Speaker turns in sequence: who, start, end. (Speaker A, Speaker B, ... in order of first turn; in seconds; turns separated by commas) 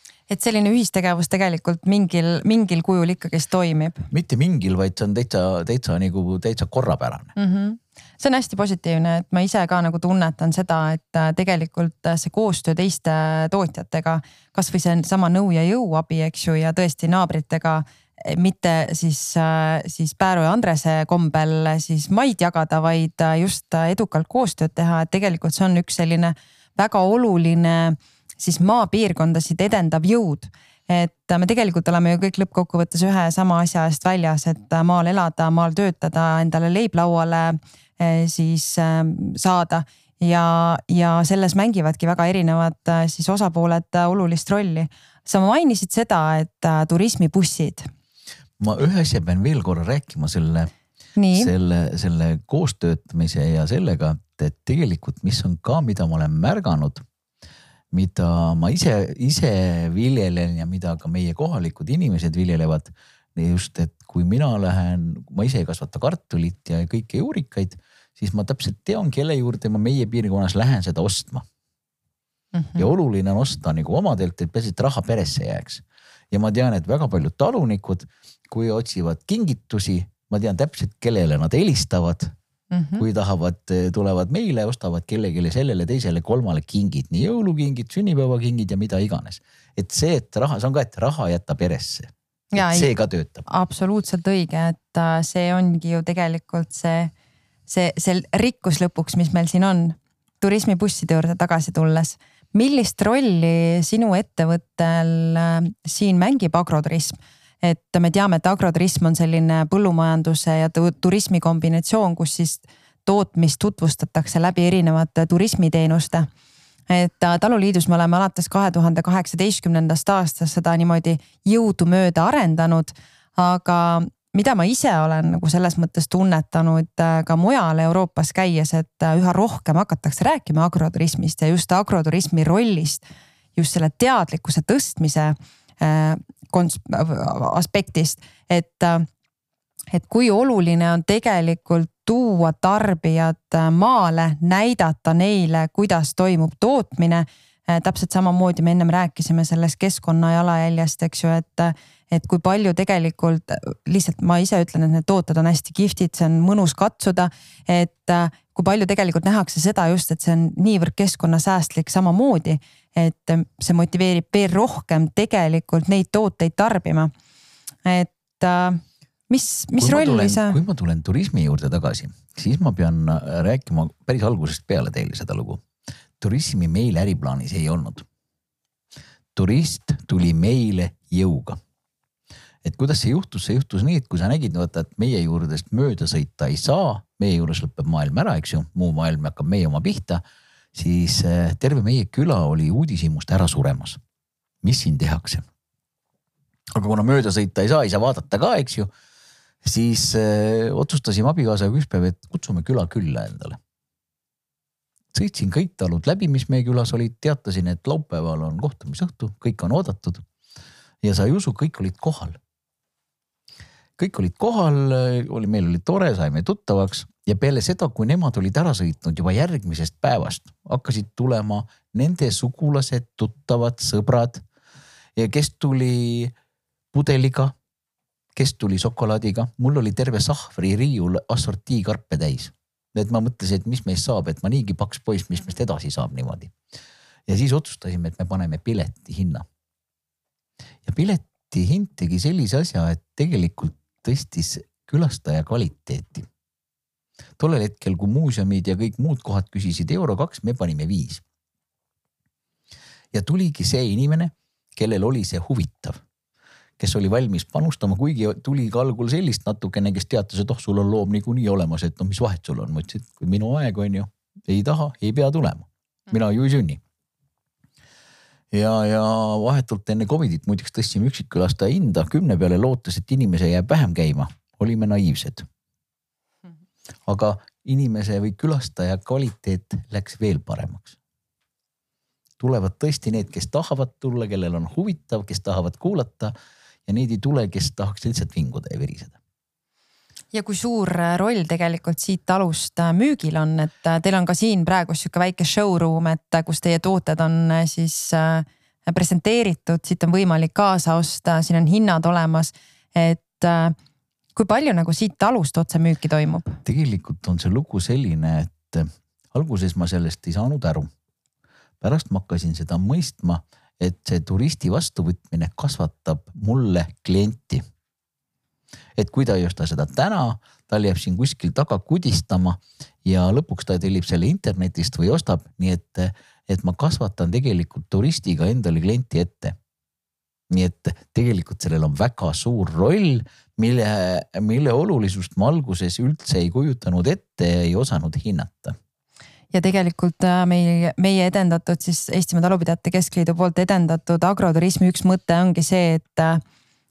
Speaker A: 0.3-4.0, Speaker B: 4.1-7.3, Speaker A: 7.4-47.9, Speaker B: 48.6-50.7, Speaker A: 51.2-51.5, Speaker B: 51.3-57.0, Speaker B: 57.9-71.4, Speaker A: 72.5-72.8, Speaker B: 72.8-82.3, Speaker A: 82.7-83.0, Speaker B: 83.0-93.4, Speaker A: 92.5-92.9, Speaker A: 93.5-97.1, Speaker A: 97.7-116.3, Speaker A: 116.9-139.1, Speaker A: 139.9-167.1, Speaker A: 167.8-170.6, Speaker B: 169.8-175.6, Speaker B: 176.2-178.1, Speaker B: 179.3-181.6, Speaker B: 182.6-190.2, Speaker B: 190.7-194.0, Speaker B: 194.6-195.5, Speaker B: 196.7-198.9, Speaker B: 199.6-203.6, Speaker B: 205.1-210.2, Speaker B: 211.0-212.4, Speaker B: 214.0-224.4, Speaker B: 225.2-226.3, Speaker B: 226.9-227.5, Speaker B: 228.3-236.5, Speaker B: 237.3-239.4, Speaker B: 240.8-246.3, Speaker B: 247.4-251.2, Speaker B: 253.1-256.0, Speaker B: 256.8-266.8, Speaker B: 268.5-275.4, Speaker B: 277.1-280.9, Speaker B: 282.4-286.3, Speaker B: 286.9-289.1, Speaker A: 290.3-303.7, Speaker A: 304.3-306.6, Speaker B: 306.6-310.9, Speaker B: 311.8-317.6, Speaker B: 318.9-329.6, Speaker B: 330.5-338.8, Speaker A: 339.5-346.4